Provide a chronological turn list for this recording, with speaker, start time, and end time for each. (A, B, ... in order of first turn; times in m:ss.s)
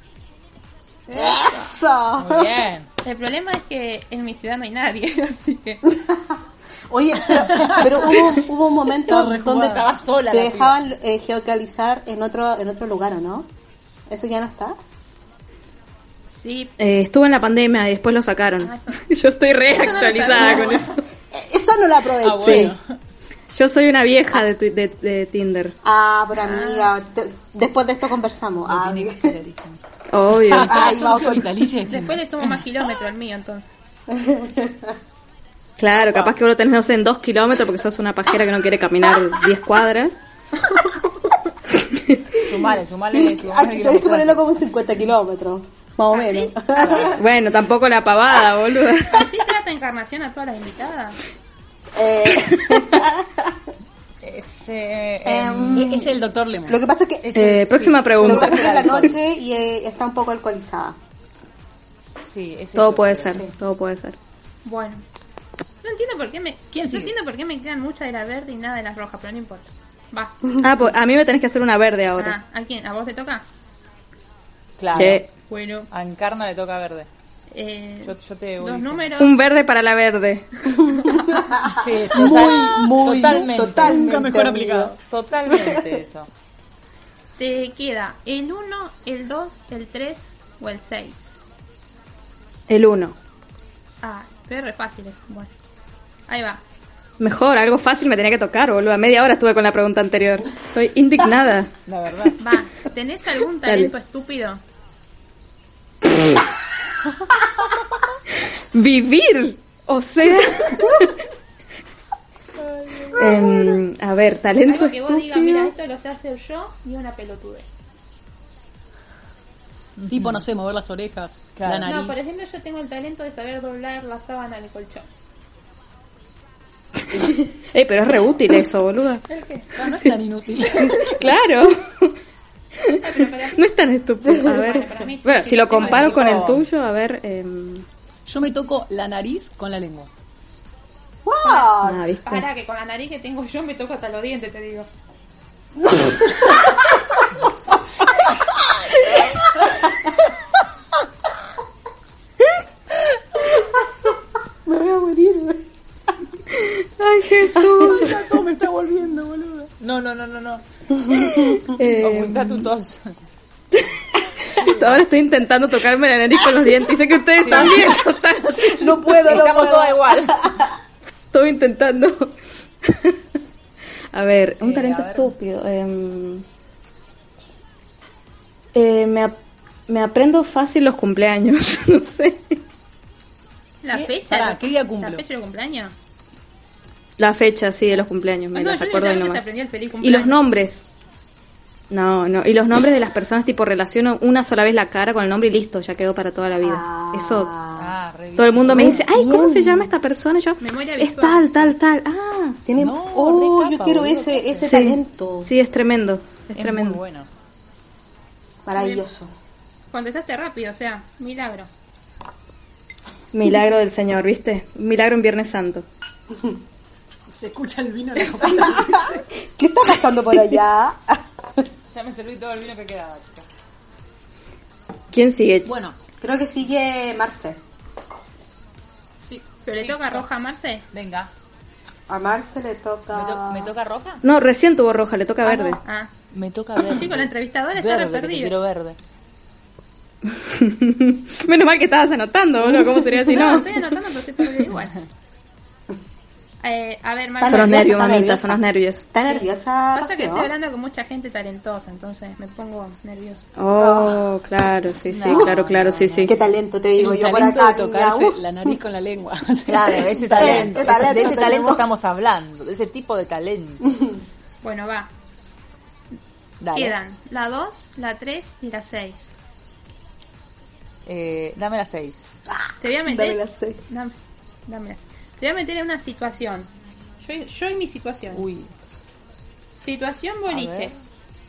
0:01.1-0:02.5 A
0:02.2-0:02.9 B
0:03.0-0:05.8 C
0:06.0-0:06.3 A
0:06.9-0:13.5 A
0:07.4-0:08.4 D
0:09.1-0:09.8 D
0:09.6-0:10.8 B
0:14.1-0:14.8 A
0:16.4-0:16.7 C
0:16.8-0:21.0 E
0:18.6-0:19.0 C
0:19.7-0:20.8 C
0:20.3-0:22.7 A
0:22.2-0:22.9 B
0:22.4-0:22.7 E
0:23.5-0:25.8 E
0:25.8-0:29.4 A
0:26.4-0:26.9 C
0:28.7-0:29.8 B
0:30.1-0:30.9 E
0:30.5-0:32.6 D
0:30.5-0:31.5 A
0:31.8-0:33.7 C
0:34.1-0:34.9 A
0:35.8-0:40.1 E
0:35.9-0:36.3 B
0:40.7-0:41.0 A
0:41.9-0:42.2 E
0:42.4-0:44.4 B
0:43.1-0:47.2 A
0:46.1-0:46.5 C
0:46.8-0:47.2 B
0:47.0-0:49.3 E
0:49.1-0:51.2 C
0:52.0-0:53.5 A
0:54.2-0:55.8 B
0:55.2-0:57.5 A
0:55.7-0:56.8 D
0:57.2-0:59.1 B
0:57.3-0:59.1 E
0:58.2-1:01.0 A
1:02.2-1:03.4 B
1:02.7-1:04.2 E
1:04.6-1:05.0 C
1:05.8-1:10.3 C
1:06.7-1:07.1 D
1:10.6-1:12.4 E
1:12.2-1:13.4 C
1:14.8-1:15.2 B
1:14.9-1:15.2 E
1:15.5-1:15.9 C
1:15.9-1:17.1 B
1:17.5-1:19.3 C
1:18.0-1:19.1 B
1:19.2-1:20.5 E
1:20.9-1:24.9 A
1:21.0-1:21.4 C
1:21.7-1:24.0 B
1:22.2-1:24.9 D
1:24.9-1:26.3 B
1:25.5-1:25.8 A
1:27.4-1:31.2 C
1:32.7-1:33.2 E
1:34.0-1:35.5 C
1:36.3-1:36.6 C
1:37.2-1:41.7 E
1:41.9-1:42.4 B
1:42.4-1:44.6 C
1:43.6-1:43.9 E
1:48.4-1:51.1 E
1:53.1-1:55.7 E
1:54.6-1:57.7 C
2:00.0-2:00.4 B
2:00.1-2:02.2 D
2:01.6-2:01.9 B
2:01.9-2:05.0 C
2:07.2-2:09.2 E
2:09.3-2:09.7 C
2:09.7-2:11.2 D
2:10.8-2:12.2 E
2:12.8-2:17.8 E
2:13.0-2:13.6 C
2:14.4-2:16.5 C
2:15.8-2:16.6 B
2:18.2-2:20.1 D
2:21.2-2:22.1 A
2:21.4-2:24.9 C
2:21.8-2:22.4 E
2:25.9-2:26.4 A
2:34.6-2:35.6 A
2:36.5-2:38.2 E
2:37.6-2:38.2 A
2:37.8-2:39.7 D
2:39.8-2:40.6 B
2:41.1-2:42.7 E
2:41.3-2:41.6 A
2:42.0-2:43.1 B
2:43.7-2:49.4 E
2:44.6-2:45.2 B
2:47.4-2:47.9 B
2:47.5-2:50.7 A
2:49.2-2:50.5 B
2:51.3-2:53.2 E
2:54.1-2:56.4 E
2:54.6-2:55.3 B
2:58.7-2:59.4 E
2:59.9-3:02.6 E
3:03.8-3:05.9 C
3:03.9-3:05.2 D
3:07.2-3:09.5 E
3:08.5-3:10.4 C
3:10.0-3:10.8 E
3:11.9-3:17.5 E
3:16.6-3:17.9 A
3:17.7-3:19.1 B
3:18.4-3:22.6 E
3:18.7-3:19.9 A
3:20.6-3:21.7 C
3:22.7-3:25.5 A
3:22.8-3:24.7 B
3:24.6-3:27.0 E
3:26.5-3:27.3 B
3:28.6-3:29.3 A
3:28.8-3:29.0 C
3:29.9-3:31.7 C
3:33.3-3:35.8 E
3:37.3-3:39.2 D
3:38.4-3:41.2 A
3:41.9-3:43.5 B
3:45.1-3:45.7 E
3:45.6-3:46.0 D
3:46.2-3:47.6 A
3:49.6-3:50.8 C
3:49.7-3:50.3 B
3:50.9-3:51.3 B
3:52.1-3:53.7 A
3:53.1-3:54.2 B
3:54.2-3:55.8 E
3:55.4-3:56.1 C
3:56.3-3:59.0 B
3:56.8-3:58.5 C
4:00.2-4:03.8 E
4:02.6-4:03.6 A
4:03.3-4:05.0 C
4:06.6-4:08.0 C
4:07.4-4:08.6 A
4:07.4-4:09.1 E
4:09.1-4:10.5 A
4:09.2-4:13.5 C
4:13.6-4:16.3 E
4:13.7-4:14.2 A
4:15.1-4:16.5 B
4:15.3-4:15.6 A
4:16.2-4:18.8 A
4:17.0-4:21.4 D
4:19.7-4:23.9 B
4:20.3-4:21.8 A
4:24.6-4:25.1 C
4:26.6-4:27.0 B
4:26.7-4:29.3 C
4:31.0-4:32.6 B
4:32.5-4:33.8 A
4:32.8-4:34.2 C
4:34.7-4:36.7 C
4:37.2-4:38.4 C
4:38.3-4:38.7 B
4:39.8-4:40.9 C
4:40.5-4:40.9 B